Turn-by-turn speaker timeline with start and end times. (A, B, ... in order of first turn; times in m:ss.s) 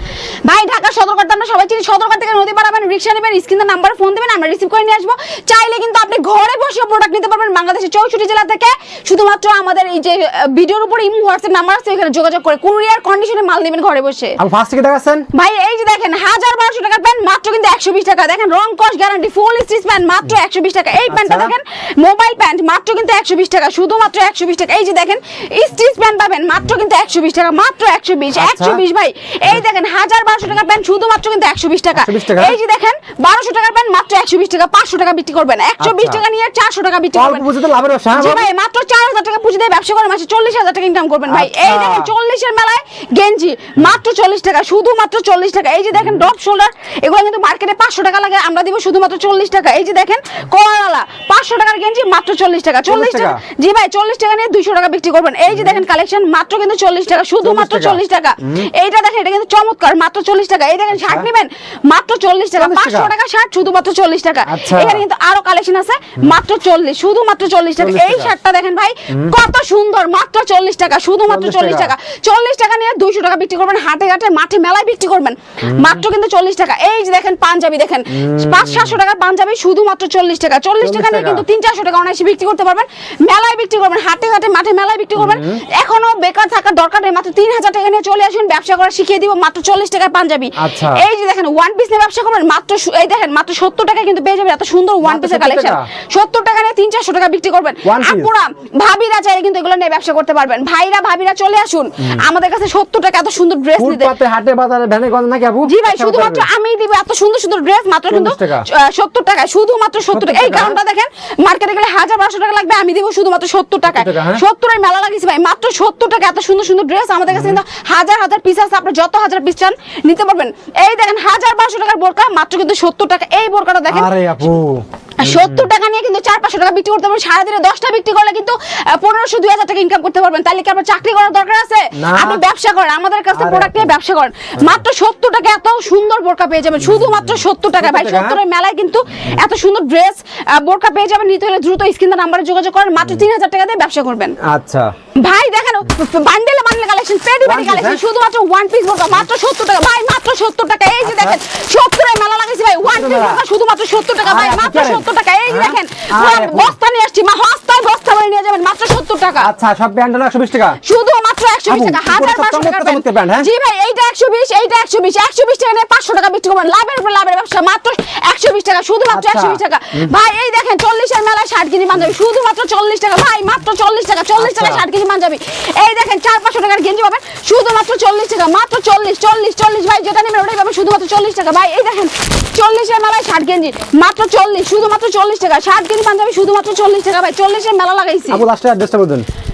0:00.4-0:14.4 A
0:14.4-0:15.3 B
0:15.3-0:37.5 A
0:21.1-0:21.5 B
0:28.3-0:28.8 B
0:31.9-0:32.6 B
0:35.8-0:36.2 B
0:37.1-0:38.5 B
0:38.1-1:44.1 A
0:41.3-0:42.1 B
0:46.0-0:46.2 B
0:52.9-0:53.4 B
0:55.5-0:55.8 B
0:57.4-0:58.7 B
1:00.9-1:01.3 B
1:02.6-1:03.1 B
1:04.4-1:05.0 B
1:07.8-1:08.3 B
1:09.1-1:09.3 B
1:11.3-1:11.9 B
1:15.6-1:16.0 B
1:18.1-1:19.0 B
1:20.8-1:21.4 B
1:25.2-1:25.6 B
1:30.6-1:31.0 B
1:35.0-1:35.9 B
1:37.8-1:38.3 B
1:42.0-1:42.2 B
1:43.8-1:46.5 B
1:45.6-2:04.1 A
1:48.1-1:48.7 B
1:50.1-1:50.8 B
1:53.9-1:54.4 B
1:57.3-1:57.6 B
2:03.9-2:05.7 B
2:05.2-2:24.4 A
2:11.9-2:12.4 B
2:13.3-2:13.9 B
2:16.8-2:18.4 B
2:23.0-2:23.2 B
2:24.4-2:24.9 B
2:25.2-2:39.5 A
2:27.4-2:28.0 B
2:31.0-2:31.4 B
2:32.8-2:33.4 B
2:34.2-2:36.8 B
2:39.4-2:40.8 B
2:40.8-3:08.4 A
2:41.7-2:43.5 B
2:49.1-2:50.1 B
2:54.4-2:54.9 B
3:08.3-3:09.3 B